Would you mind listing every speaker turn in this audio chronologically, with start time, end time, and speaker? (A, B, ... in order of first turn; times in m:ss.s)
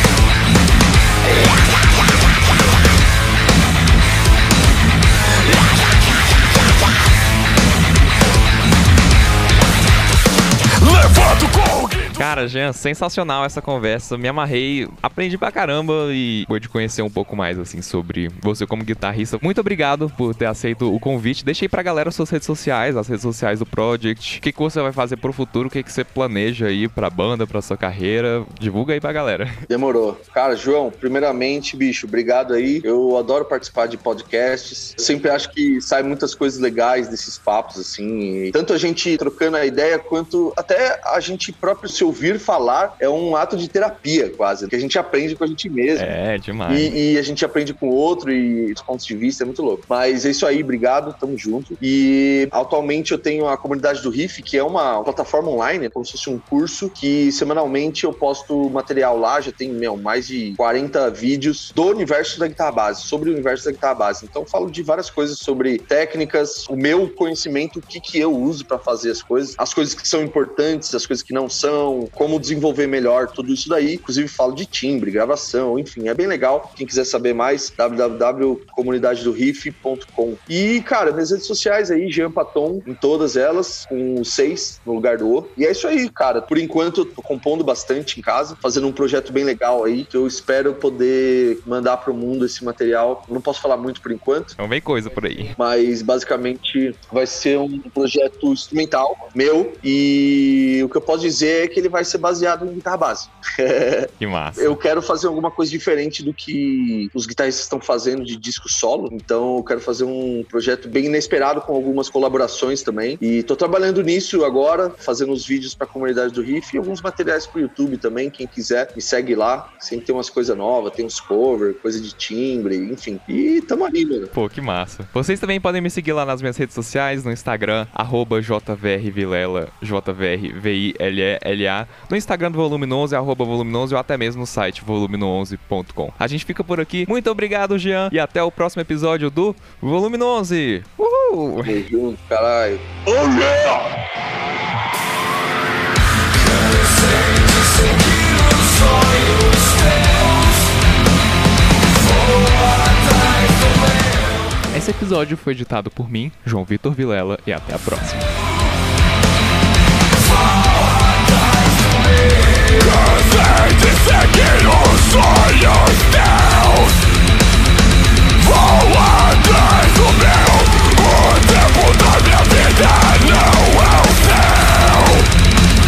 0:10.8-0:12.3 A
0:12.2-0:29.6 B
0:29.7-0:46.1 C
0:46.0-0:46.9 B
0:46.7-1:34.6 C
1:34.6-1:35.5 B
1:35.6-2:04.3 C
1:44.2-1:44.8 B
2:04.3-2:21.8 B
2:21.6-2:23.8 C
2:28.6-2:29.4 A
2:34.6-2:38.3 B
2:42.6-2:46.9 A
2:48.4-2:55.3 A